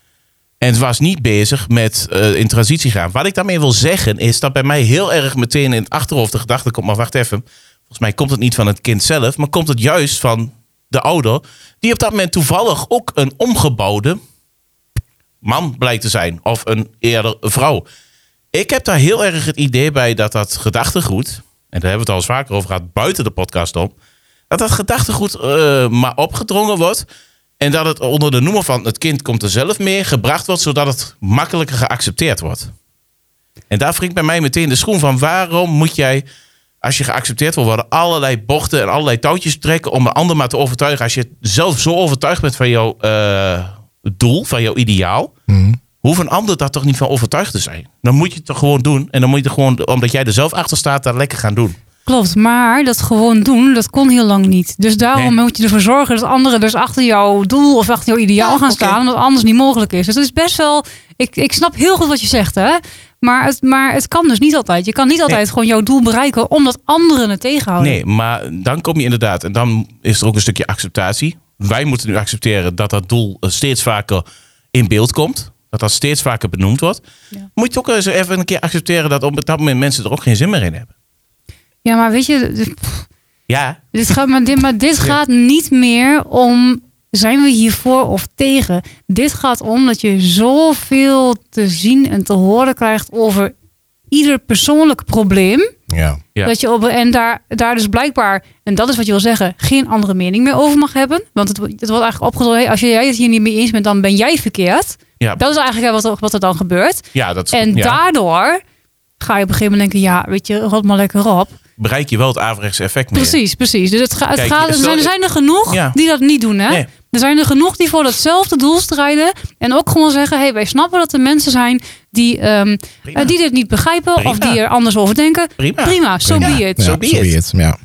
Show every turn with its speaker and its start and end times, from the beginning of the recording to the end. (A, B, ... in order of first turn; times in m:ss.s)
0:00.6-0:14.2 A
0:15.4-0:17.8 A
0:18.5-0:23.9 A
0:24.5-0:27.0 A
0:27.6-0:32.7 A
0:33.7-0:36.2 A
0:36.8-0:45.3 A
0:45.5-0:45.8 B
0:46.0-0:51.8 A
0:52.0-1:08.0 C
0:58.4-0:59.0 A
1:07.8-1:17.0 A
1:17.6-1:20.9 A
1:21.8-1:23.1 C
1:23.5-1:23.8 A
1:23.9-1:33.5 C
1:34.1-1:35.7 C
1:35.9-1:36.2 B
1:36.4-1:48.6 C
1:47.1-1:48.0 A
1:49.2-1:51.6 C
1:51.8-1:53.4 A
1:53.1-2:06.9 C
1:54.4-1:55.1 A
1:55.7-1:56.0 A
2:03.1-2:03.3 A
2:04.2-2:04.6 A
2:05.6-2:07.4 A
2:06.2-2:07.8 B